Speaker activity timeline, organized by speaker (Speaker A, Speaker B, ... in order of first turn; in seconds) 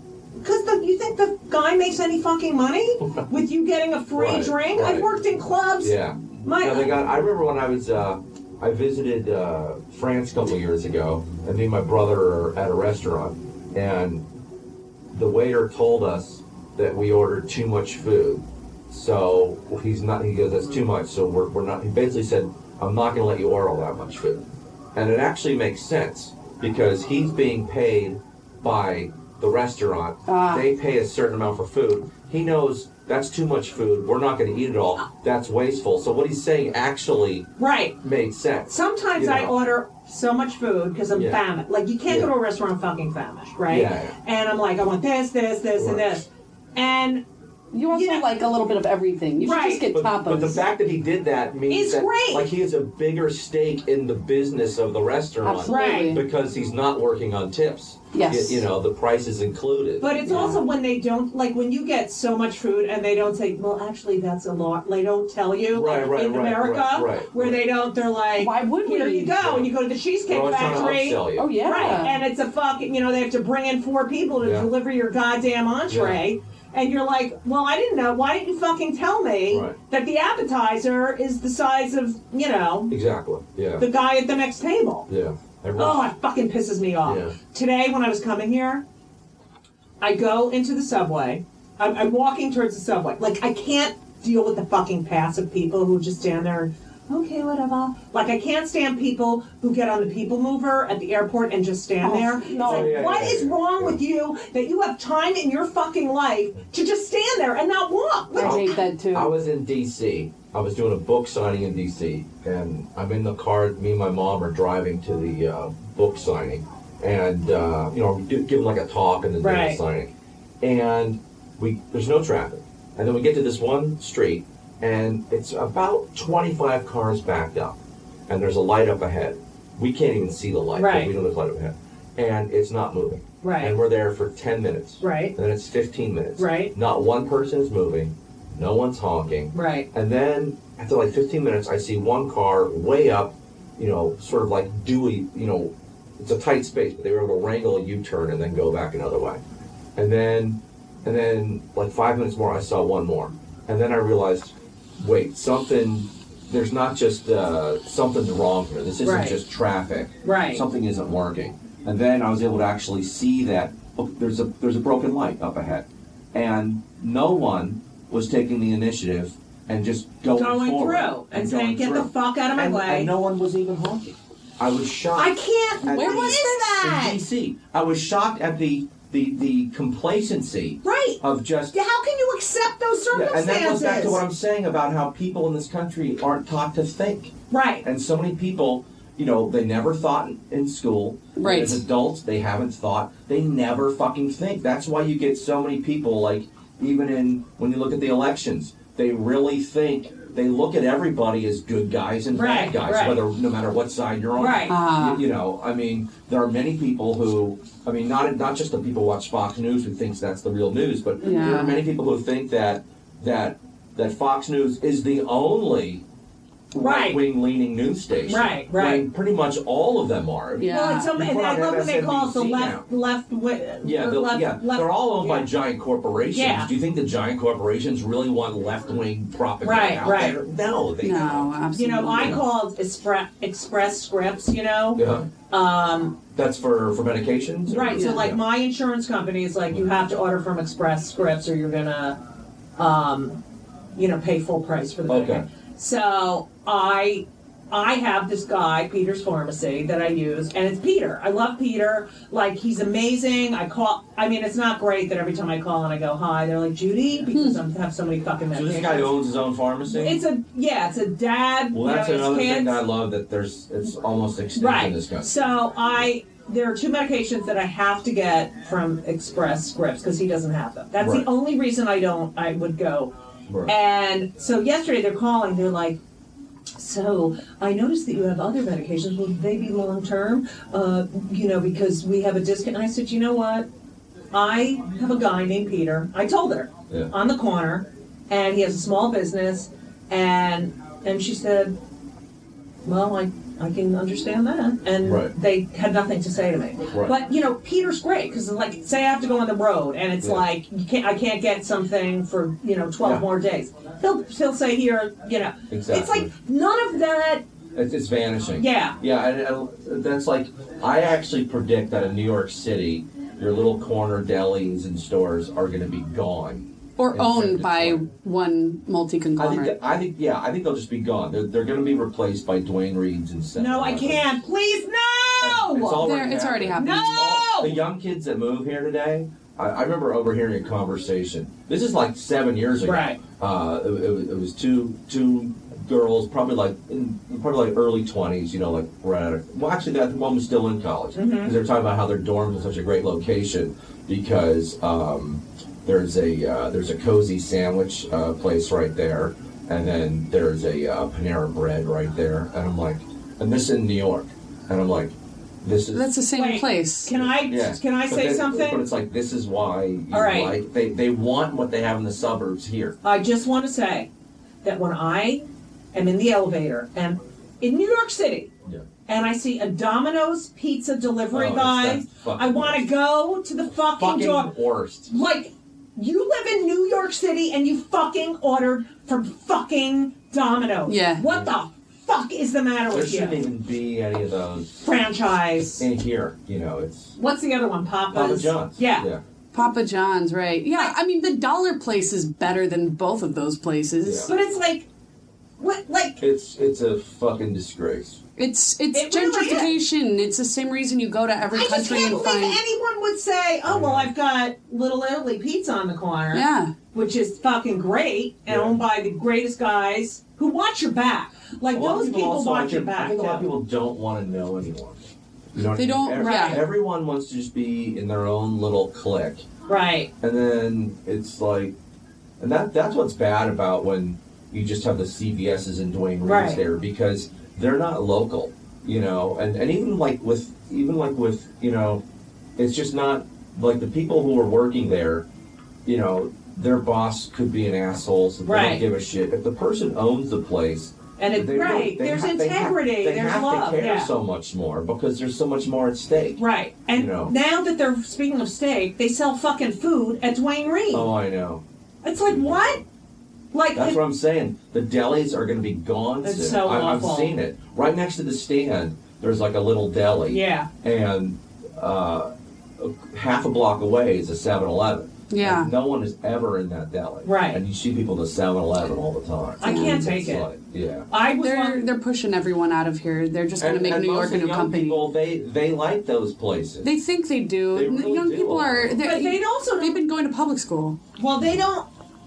Speaker A: 0.4-6.9, 37.6-38.0, 38.7-47.2, 47.9-48.2, 49.4-49.9, 51.7-52.5, 55.6-56.2, 60.0-82.9, 83.8-85.1, 85.8-88.8, 90.0-108.8, 119.4-119.8, 130.7-131.1, 133.4-133.7, 135.0-135.3, 136.4-136.7, 139.5-139.9, 159.0-159.4, 160.2-160.6, 170.3-173.1, 175.2-177.2, 180.8-181.2, 181.7-184.2, 187.5-187.8, 202.3-203.2, 204.4-204.7, 216.8-217.2, 218.3-219.0, 220.7-225.5, 226.3-226.7, 229.6-230.4, 231.7-236.2, 237.7-242.2, 242.8-243.4, 243.9-259.2, 259.9-262.8, 264.6-273.1, 273.6-276.0, 276.8-283.7, 284.3-291.7, 292.8-307.4, 308.6-309.0, 323.6-326.1, 326.8-327.8, 332.8-333.2, 341.1-341.6, 356.4-358.9, 360.1-360.6, 363.0-364.1, 364.6-368.5, 369.1-374.5, 375.1-383.4, 384.8-385.9, 387.2-389.1, 394.3-394.9, 395.6-396.2, 398.9-399.7, 401.5-413.5, 416.1-416.6, 419.7-420.1, 426.2-426.6, 438.4-438.8, 441.2-444.1, 446.4-451.1, 452.0-452.8, 453.5-454.0, 456.2-457.4, 460.3-460.7, 467.2-467.6, 469.6-470.5, 471.1-471.9, 479.0-480.0, 481.2-481.9
Speaker B: 4.1-5.1, 5.8-14.2, 15.1-37.5, 38.0-39.6, 41.1-41.4, 43.7-44.1, 45.7-46.2, 49.9-60.6, 65.7-67.6, 69.4-69.7, 70.3-71.6, 74.4-74.7, 75.9-76.2, 79.5-79.8, 82.9-83.9, 85.1-86.1, 87.0-87.3, 102.6-104.0, 108.4-149.4, 149.9-181.8, 183.1-216.0, 216.7-222.8, 223.8-231.5, 232.2-232.4, 234.9-235.3, 236.3-238.4, 245.1-245.4, 258.5-260.2, 261.7-266.1, 271.0-271.3, 273.5-273.7, 295.0-295.3, 296.9-297.2, 300.2-300.4, 303.0-303.2, 305.7-306.3, 307.7-318.1, 319.4-324.3, 325.4-356.1, 357.2-362.9, 371.3-372.9, 374.0-375.1, 382.9-384.8, 385.8-387.2, 388.1-389.2, 394.0-394.3, 396.2-398.2, 403.6-404.1, 408.5-408.8, 411.7-415.0, 415.5-419.5, 420.2-421.7, 422.4-432.0, 432.6-435.2, 435.9-446.4, 446.9-447.3, 450.9-451.6, 452.3-452.6, 453.7-471.1, 473.6-476.9, 477.7-479.0
Speaker C: 30.2-30.7, 47.7-50.6, 55.4-56.2, 58.1-58.6, 68.4-69.3, 71.4-72.2, 102.0-102.9, 108.3-109.3, 175.8-176.8, 191.3-191.8, 204.7-205.2, 211.2-211.8, 220.6-221.1, 231.0-232.4, 237.9-238.2, 257.3-257.6, 317.0-319.8, 326.0-327.3, 355.9-357.1, 380.9-381.2, 389.5-394.3, 398.4-402.6, 406.3-406.7, 415.7-416.6, 465.3-465.7, 469.6-470.1, 471.4-475.1, 476.8-481.0